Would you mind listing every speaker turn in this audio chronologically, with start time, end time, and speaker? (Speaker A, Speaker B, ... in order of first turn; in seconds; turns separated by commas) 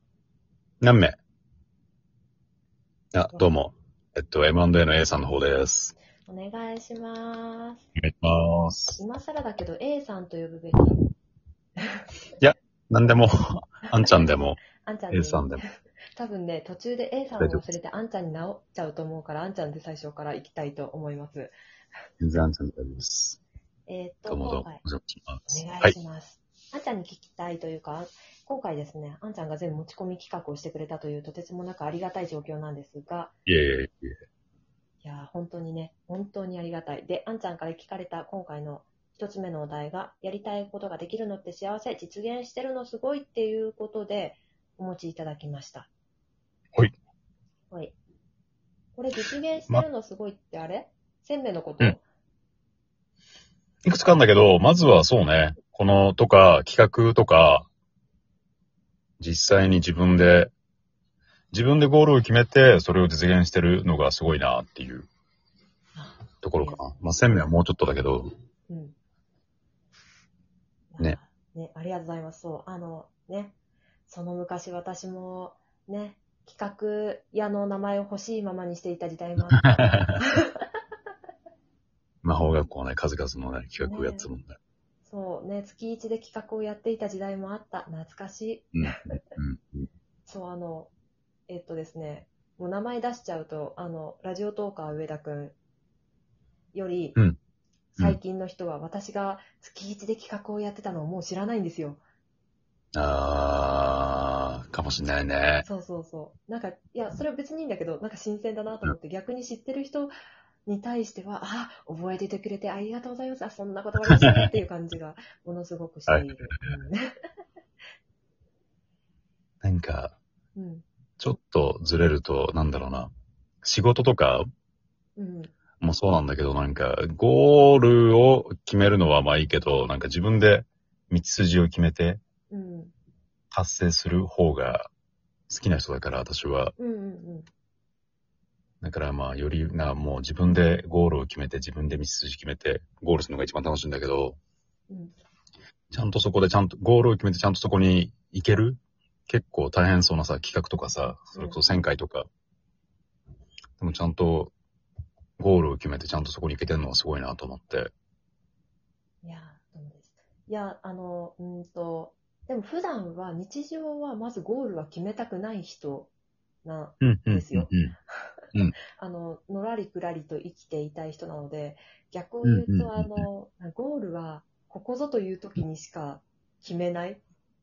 Speaker A: 0.8-1.2, Speaker A: 3.1-5.9, Speaker B: 6.2-7.8, Speaker A: 8.0-9.0, Speaker B: 9.0-11.0, Speaker A: 12.4-15.6, Speaker B: 13.9-15.6, Speaker B: 16.1-21.5, Speaker A: 22.2-23.4, Speaker B: 23.9-24.8, Speaker A: 24.3-25.9, Speaker B: 25.5-33.4, Speaker A: 33.5-34.2, Speaker B: 35.0-45.9, Speaker B: 47.7-48.0, Speaker B: 49.0-52.0, Speaker A: 53.8-57.7, Speaker A: 59.2-60.5, Speaker A: 61.5-65.1, Speaker B: 65.9-66.9, Speaker A: 66.4-68.3, Speaker B: 68.7-69.0, Speaker B: 70.9-73.5, Speaker B: 74.1-80.6, Speaker A: 79.5-80.2, Speaker A: 82.2-84.5, Speaker B: 83.8-84.3, Speaker B: 85.0-89.3, Speaker A: 88.7-89.9, Speaker B: 90.3-90.9, Speaker B: 91.5-95.5, Speaker B: 96.7-97.2, Speaker B: 97.9-102.0, Speaker A: 102.9-105.7, Speaker B: 105.6-110.1, Speaker B: 110.7-117.1, Speaker A: 114.1-114.5, Speaker A: 116.1-116.7, Speaker A: 119.6-120.2, Speaker B: 120.5-120.8, Speaker A: 121.2-123.1, Speaker A: 123.6-124.5, Speaker B: 125.2-125.5, Speaker A: 125.8-132.2, Speaker B: 132.5-132.9, Speaker A: 133.5-134.9, Speaker A: 135.5-136.7, Speaker B: 136.8-137.5, Speaker A: 138.8-144.4, Speaker B: 144.9-145.2, Speaker A: 145.9-152.3, Speaker B: 151.3-151.6, Speaker A: 153.8-154.5, Speaker A: 155.4-157.9, Speaker B: 159.2-166.1, Speaker B: 166.6-167.7, Speaker A: 167.0-167.9, Speaker B: 169.0-177.2, Speaker A: 172.4-173.2